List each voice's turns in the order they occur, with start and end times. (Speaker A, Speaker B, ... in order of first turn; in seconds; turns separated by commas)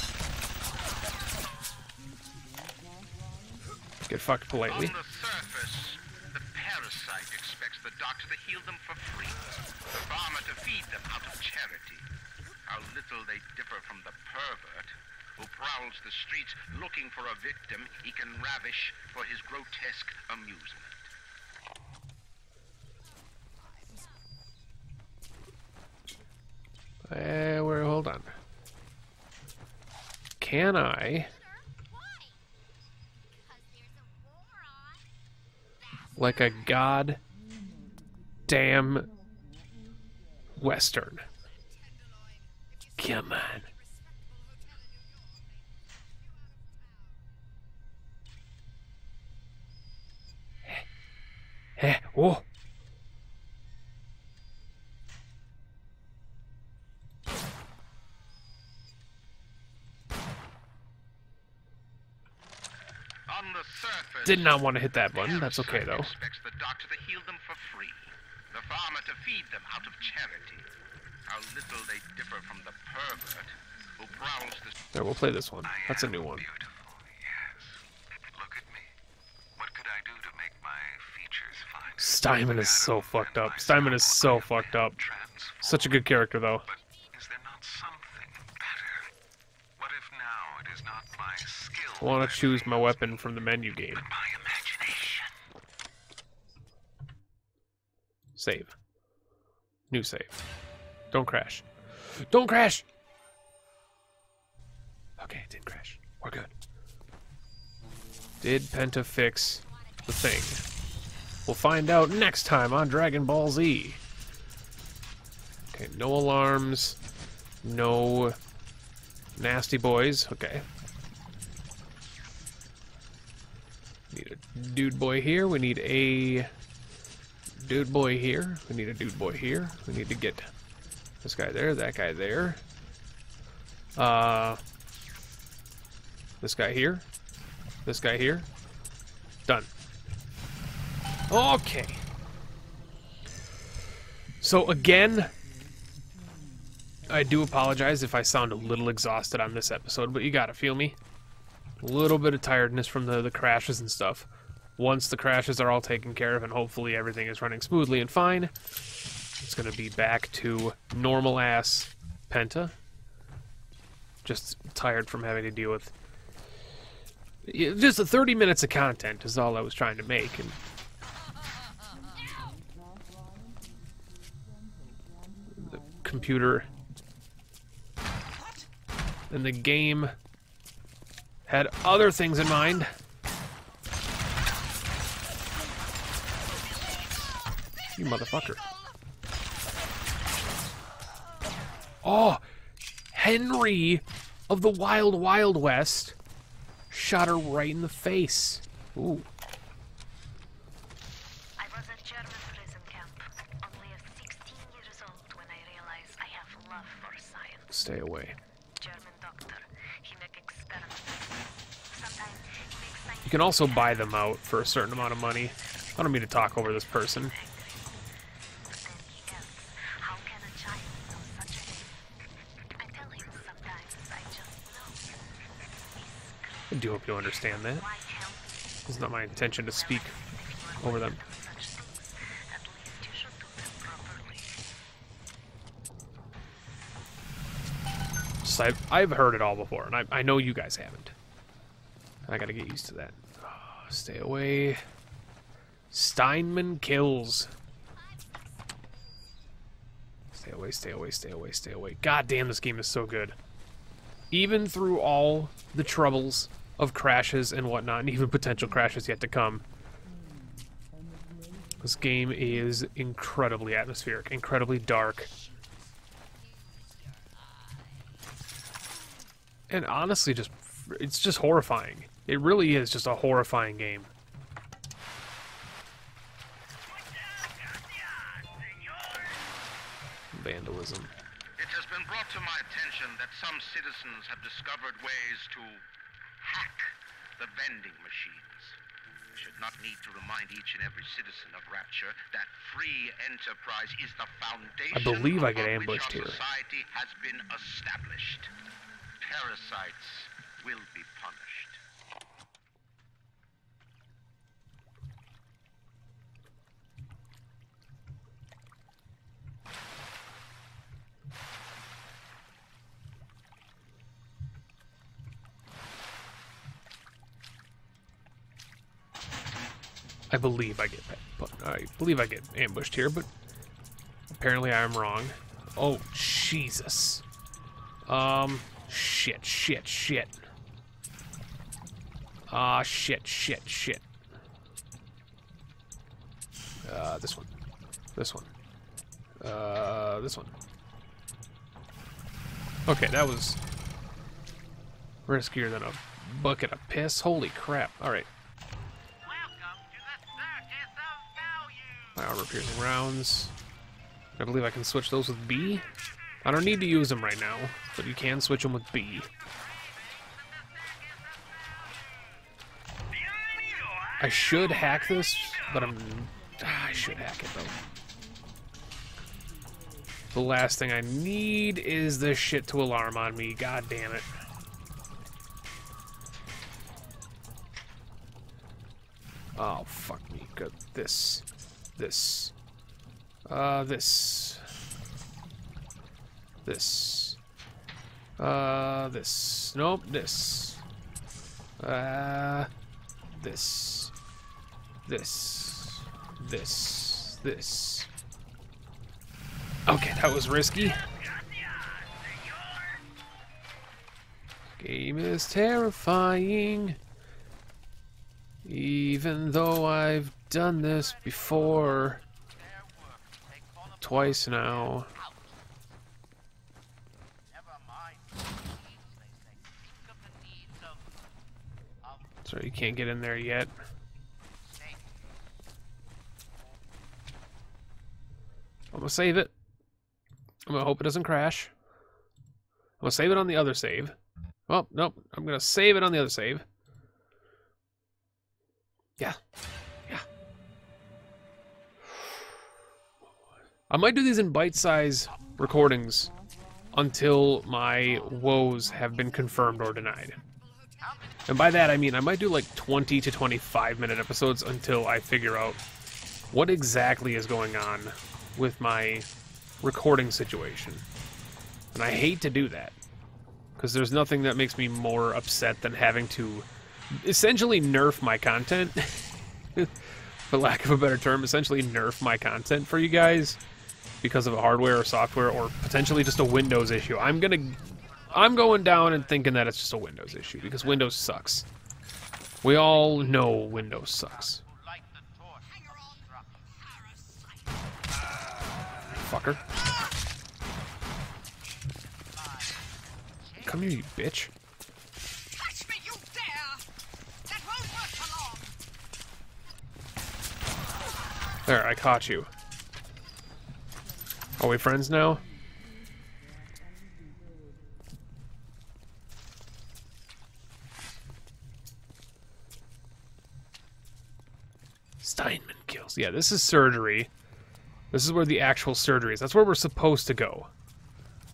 Speaker A: 4.1-4.9, Speaker B: 4.7-12.1, Speaker B: 12.7-21.1, Speaker A: 27.1-28.3, Speaker A: 30.4-31.3, Speaker A: 36.2-37.2, Speaker A: 38.5-39.1, Speaker A: 40.6-41.2, Speaker A: 43.0-43.7, Speaker A: 51.8-52.4, Speaker B: 63.3-70.7, Speaker A: 64.2-66.1, Speaker B: 71.3-74.8, Speaker A: 74.9-76.5, Speaker C: 75.6-78.9, Speaker C: 79.6-86.1, Speaker A: 82.0-85.0, Speaker A: 85.6-86.7, Speaker C: 86.7-89.1, Speaker C: 89.8-93.3, Speaker A: 92.0-94.1, Speaker C: 93.9-95.3, Speaker A: 98.4-98.8, Speaker A: 99.9-100.3, Speaker A: 101.1-102.8, Speaker A: 105.2-106.5, Speaker A: 108.4-110.6, Speaker A: 111.5-114.0, Speaker A: 115.7-117.0, Speaker A: 117.6-118.4, Speaker A: 119.4-120.7, Speaker A: 124.1-126.5, Speaker A: 127.6-130.5, Speaker A: 131.2-132.6, Speaker A: 134.0-134.6, Speaker A: 136.4-137.1, Speaker A: 137.8-138.5, Speaker A: 141.3-142.0, Speaker A: 144.4-145.3, Speaker A: 147.1-151.0, Speaker A: 151.8-158.5, Speaker A: 159.4-162.8, Speaker A: 164.2-165.9, Speaker A: 167.4-170.6, Speaker A: 175.6-176.7, Speaker A: 179.3-180.1, Speaker A: 181.5-182.9, Speaker A: 187.9-188.6, Speaker D: 188.0-188.9, Speaker A: 192.0-192.4, Speaker A: 193.1-196.2, Speaker A: 196.9-199.3, Speaker E: 201.6-207.7, Speaker A: 207.7-208.4, Speaker E: 208.8-211.3, Speaker E: 211.9-214.1, Speaker A: 213.2-217.3, Speaker E: 217.0-217.8, Speaker E: 218.7-221.9, Speaker E: 222.8-234.6, Speaker A: 226.7-227.8, Speaker A: 228.9-230.1, Speaker A: 230.8-231.2, Speaker A: 238.4-241.1, Speaker A: 242.3-244.8, Speaker A: 245.9-247.5, Speaker A: 250.3-253.4, Speaker A: 254.3-259.6, Speaker A: 261.8-265.3, Speaker D: 266.6-267.2, Speaker A: 269.7-274.1, Speaker A: 280.3-281.1, Speaker B: 281.6-285.8, Speaker B: 286.4-288.8, Speaker B: 289.4-298.5, Speaker A: 294.9-296.4, Speaker B: 299.2-301.8, Speaker A: 320.3-323.3, Speaker A: 324.3-327.2, Speaker A: 328.1-330.4, Speaker A: 332.5-334.0, Speaker A: 336.8-337.5, Speaker A: 338.2-338.5, Speaker A: 339.4-340.5, Speaker A: 342.9-343.6, Speaker A: 345.3-348.3, Speaker B: 349.3-351.7, Speaker A: 352.2-353.5, Speaker A: 354.4-355.9, Speaker A: 356.4-359.3, Speaker A: 364.2-367.8, Speaker A: 370.3-374.3, Speaker A: 379.6-381.4, Speaker A: 382.0-382.5, Speaker A: 383.5-384.6, Speaker A: 386.6-387.4, Speaker A: 388.4-390.8, Speaker A: 391.8-392.7, Speaker A: 393.3-394.1, Speaker A: 395.1-398.1, Speaker A: 399.9-401.0, Speaker A: 404.8-407.0, Speaker A: 408.6-412.2, Speaker B: 411.4-415.7, Speaker A: 414.0-415.1, Speaker B: 417.5-421.0, Speaker A: 422.4-423.7, Speaker B: 424.7-425.1, Speaker A: 428.9-429.5, Speaker A: 430.7-431.7, Speaker A: 433.0-434.2, Speaker A: 434.7-436.6, Speaker A: 443.9-446.3, Speaker A: 446.9-450.4, Speaker D: 450.5-451.3, Speaker A: 451.5-455.8, Speaker A: 456.5-459.3, Speaker A: 459.8-461.0, Speaker A: 461.9-462.9, Speaker A: 463.8-469.2, Speaker A: 469.8-473.6, Speaker A: 474.2-481.7, Speaker D: 478.1-478.9, Speaker A: 482.6-484.6, Speaker B: 483.5-485.7, Speaker D: 485.6-487.8, Speaker A: 489.1-489.6, Speaker B: 492.3-492.7, Speaker A: 493.6-494.5, Speaker D: 495.5-496.8, Speaker D: 497.5-498.8, Speaker A: 501.7-502.5, Speaker A: 504.6-505.4, Speaker A: 515.2-517.3, Speaker A: 518.1-520.7